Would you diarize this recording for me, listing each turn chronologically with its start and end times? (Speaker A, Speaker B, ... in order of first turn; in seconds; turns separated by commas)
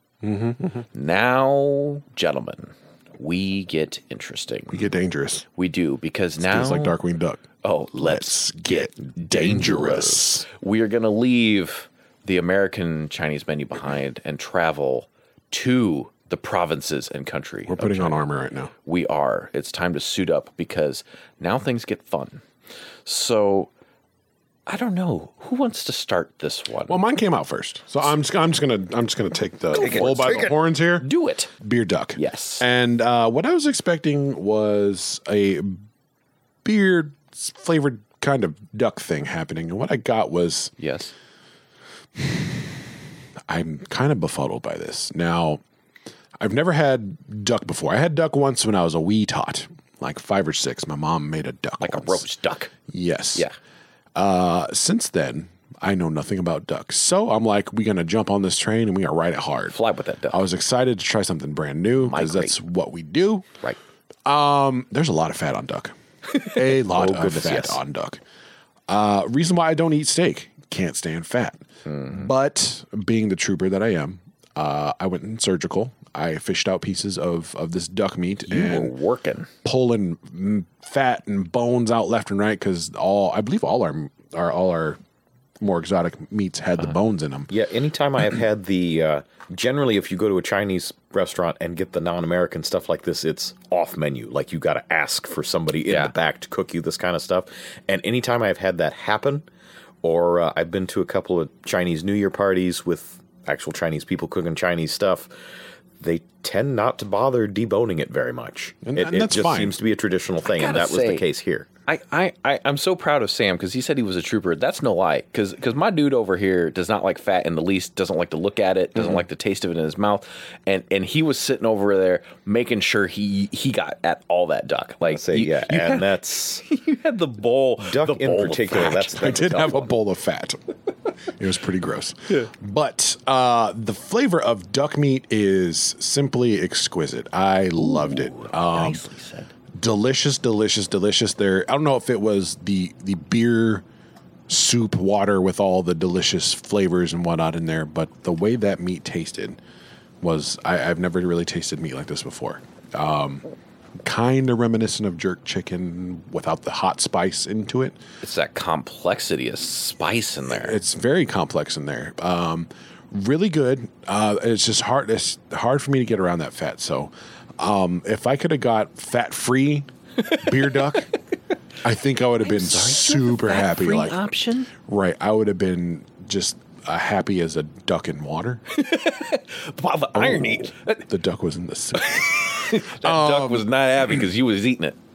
Speaker A: 0.2-0.8, Speaker B: 0.9-4.8, Speaker A: 4.7-5.4, Speaker B: 5.5-7.0, Speaker A: 6.4-7.4, Speaker B: 7.6-18.2, Speaker A: 7.9-10.4, Speaker A: 17.7-18.7, Speaker B: 18.8-22.4, Speaker B: 23.1-23.7, Speaker B: 24.7-27.0, Speaker A: 26.9-35.8, Speaker B: 29.7-31.5, Speaker C: 29.7-30.5, Speaker B: 32.1-32.6, Speaker A: 36.6-40.7, Speaker B: 40.8-41.1, Speaker A: 42.2-42.8, Speaker A: 43.5-45.6, Speaker A: 46.4-52.2, Speaker B: 51.8-52.7, Speaker A: 52.9-53.5, Speaker A: 54.1-59.8, Speaker B: 59.7-60.4, Speaker A: 60.3-63.5, Speaker B: 62.0-62.6, Speaker A: 64.2-68.2, Speaker C: 66.8-67.8, Speaker A: 68.9-78.9, Speaker B: 71.9-72.2, Speaker B: 78.5-79.5, Speaker A: 79.6-85.0, Speaker A: 85.6-87.5, Speaker C: 87.5-99.4, Speaker B: 95.9-96.1, Speaker C: 100.0-105.3, Speaker C: 106.0-111.7, Speaker A: 108.8-109.8, Speaker B: 110.5-111.2, Speaker B: 111.9-129.3, Speaker C: 125.0-126.6, Speaker C: 127.8-129.9, Speaker A: 129.1-130.6, Speaker A: 131.3-139.0, Speaker B: 137.8-139.5, Speaker A: 139.7-143.8, Speaker A: 144.5-149.6, Speaker A: 150.2-153.4, Speaker A: 154.0-158.0, Speaker B: 158.2-160.8, Speaker A: 160.5-171.1, Speaker A: 171.8-174.2, Speaker B: 172.4-174.7, Speaker A: 174.7-178.6, Speaker B: 178.7-181.0, Speaker A: 180.1-184.2, Speaker B: 181.9-184.9